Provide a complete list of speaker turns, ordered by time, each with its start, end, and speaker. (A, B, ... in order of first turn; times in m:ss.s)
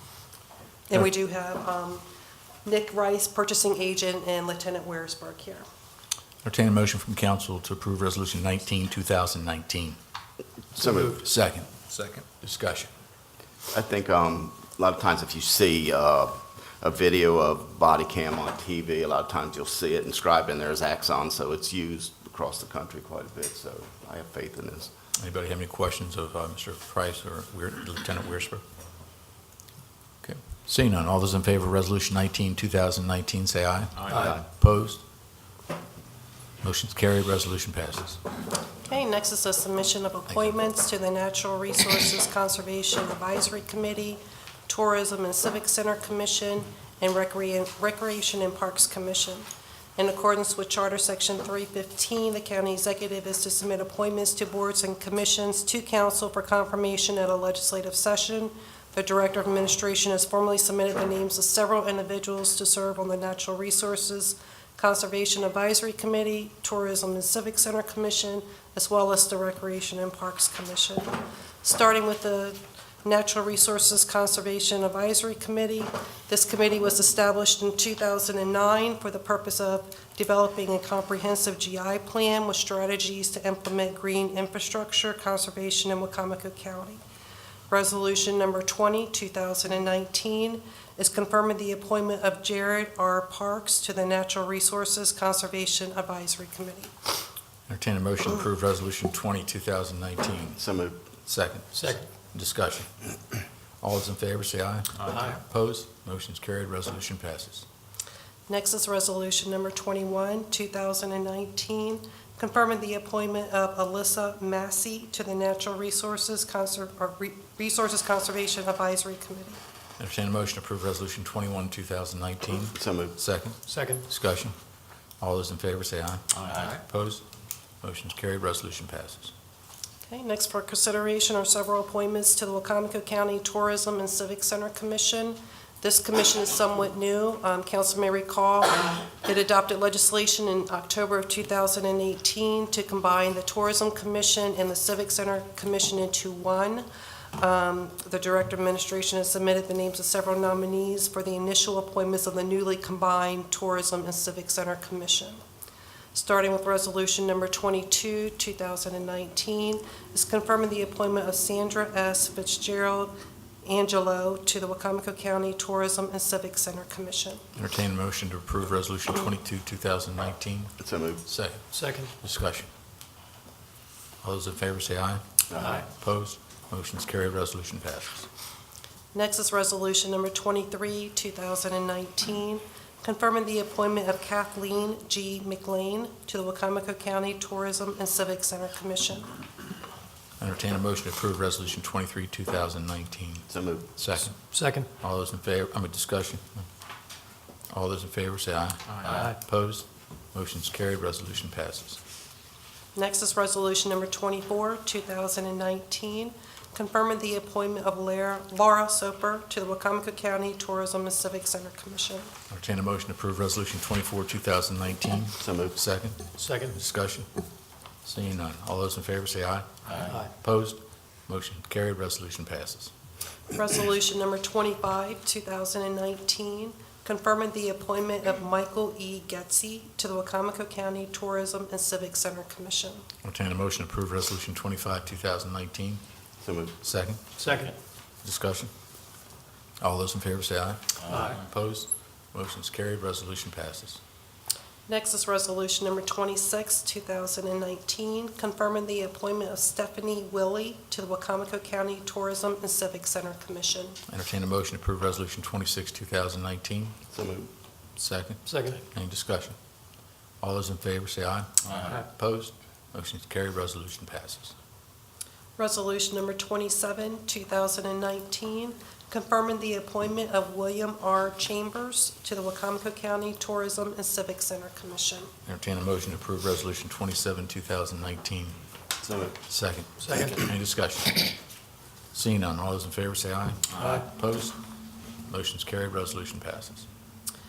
0:00.9-0:02.0 A
0:02.6-0:05.7 A
0:06.4-0:10.0 B
0:10.8-0:11.2 C
0:10.8-0:11.2 D
0:11.2-0:12.9 B
0:13.7-0:24.9 C
0:25.2-0:28.6 B
0:30.2-0:35.0 B
0:34.1-0:34.4 C
0:36.6-0:38.2 B
0:38.9-1:27.0 A
1:27.7-1:36.9 A
1:37.7-1:40.6 B
1:40.6-1:41.0 C
1:41.3-1:43.0 B
1:41.8-1:42.0 D
1:43.8-1:47.6 B
1:45.1-1:45.4 D
1:48.5-1:59.6 A
2:00.0-2:04.6 B
2:02.8-2:03.2 C
2:03.7-2:04.0 D
2:05.2-2:07.2 B
2:07.8-2:09.3 B
2:10.1-2:35.4 A
2:36.1-2:47.4 A
2:47.6-2:51.6 B
2:50.8-2:51.2 C
2:51.7-2:52.1 D
2:52.2-2:52.7 B
2:54.2-2:58.3 B
2:55.5-2:55.8 C
2:59.1-3:09.3 A
3:10.4-3:14.4 B
3:13.5-3:13.9 C
3:14.2-3:14.9 D
3:15.0-3:16.6 B
3:17.7-3:22.0 B
3:19.0-3:19.4 D
3:23.0-3:32.3 A
3:32.5-3:37.3 B
3:35.4-3:35.8 C
3:36.4-3:36.8 D
3:38.0-3:39.7 B
3:40.2-3:42.9 B
3:43.5-3:53.1 A
3:53.2-3:56.0 B
3:56.4-3:56.8 C
3:56.8-3:57.2 B
3:57.4-3:57.8 D
3:58.2-3:58.7 B
3:59.8-4:04.0 B
4:01.1-4:01.4 D
4:04.9-4:14.0 A
4:14.1-4:17.0 B
4:17.1-4:17.5 C
4:18.0-4:19.6 B
4:18.4-4:18.8 D
4:20.4-4:24.5 B
4:25.6-4:35.3 A
4:35.5-4:38.6 B
4:39.0-4:39.4 C
4:39.5-4:41.3 B
4:40.0-4:40.4 D
4:42.1-4:44.6 B
4:43.8-4:44.1 D
4:45.3-4:46.9 B